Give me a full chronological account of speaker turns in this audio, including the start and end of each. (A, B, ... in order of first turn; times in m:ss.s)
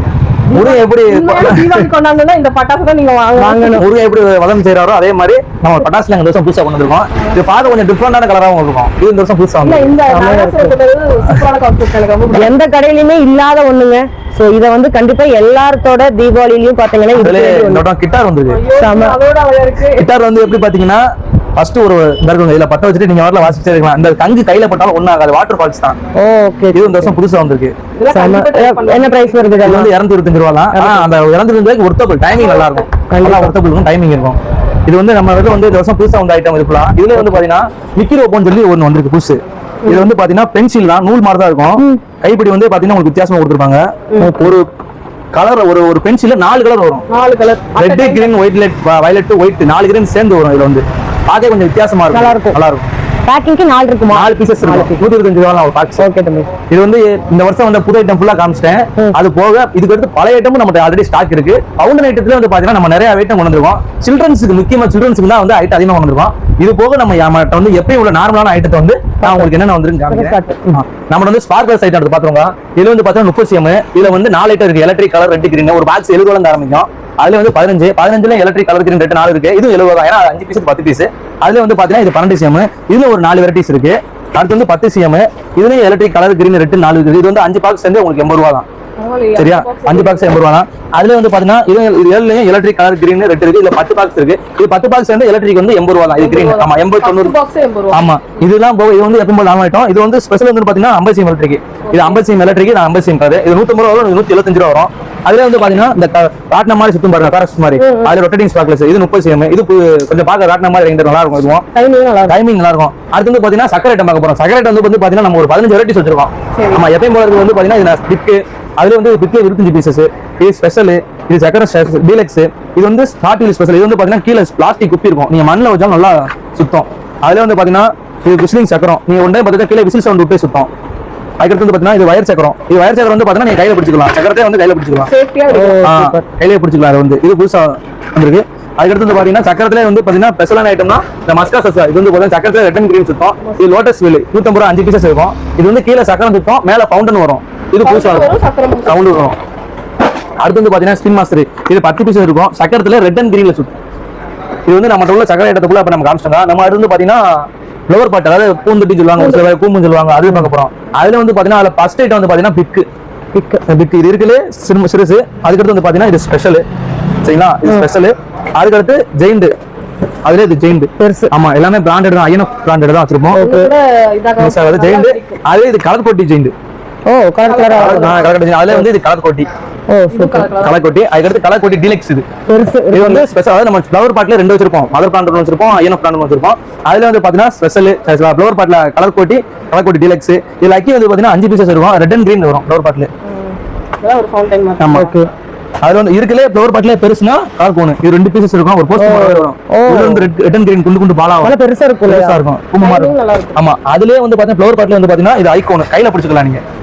0:00.5-0:03.8 A
0:00.5-0:01.9 B
0:03.4-0:03.9 C
0:03.8-0:09.9 B
0:09.6-0:12.6 A
0:10.1-0:10.8 C
0:12.3-0:17.8 C
0:17.2-0:18.6 B
0:18.5-0:20.1 A
0:18.8-0:19.2 C
0:19.9-0:21.0 B
0:21.6-0:26.0 B
0:26.2-0:27.2 C
0:26.7-0:27.7 B
0:28.0-0:29.8 A
0:28.1-0:29.9 C
0:29.6-0:44.7 B
0:30.7-0:31.1 C
0:32.4-0:32.9 A
0:33.1-0:33.5 C
0:44.2-0:44.6 C
0:45.3-0:47.0 B
0:47.1-0:48.4 A
0:47.8-0:52.9 B
0:52.1-0:52.6 C
0:53.3-0:55.0 C
0:54.1-0:56.0 B
0:56.0-0:56.5 C
0:56.7-1:28.7 B
1:09.2-1:09.5 C
1:10.1-1:10.8 C
1:29.0-1:30.4 A
1:29.4-1:37.4 B
1:36.2-1:38.0 A
1:37.9-1:51.7 B
1:41.9-1:42.2 A
1:47.8-1:48.1 A
1:51.8-1:52.4 C
1:52.3-2:10.7 B
1:56.6-1:56.9 A
2:11.4-2:15.1 B
2:15.1-2:15.9 A
2:15.5-2:16.2 C
2:15.8-2:28.3 B
2:27.8-2:29.1 A
2:28.9-2:29.4 B
2:30.4-2:33.8 B
2:34.7-2:42.8 B
2:43.3-2:43.6 C
2:43.7-2:46.6 B
2:47.2-2:49.5 B
2:50.2-2:53.4 B
2:51.0-2:51.3 C
2:53.3-2:53.7 C
2:53.4-2:55.4 A
2:54.4-2:56.5 B
2:57.1-2:58.1 C
2:57.5-2:58.2 A
2:57.8-2:59.5 B
2:59.9-3:00.5 C
3:00.1-3:00.8 A
3:00.6-3:02.2 B
3:02.5-3:03.2 C
3:02.9-3:13.1 B
3:13.3-3:15.1 A
3:14.8-3:15.1 B
3:14.9-3:15.3 C
3:15.8-3:21.5 B
3:19.0-3:20.3 C
3:21.4-3:22.4 C
3:22.1-3:26.6 B
3:22.8-3:23.6 A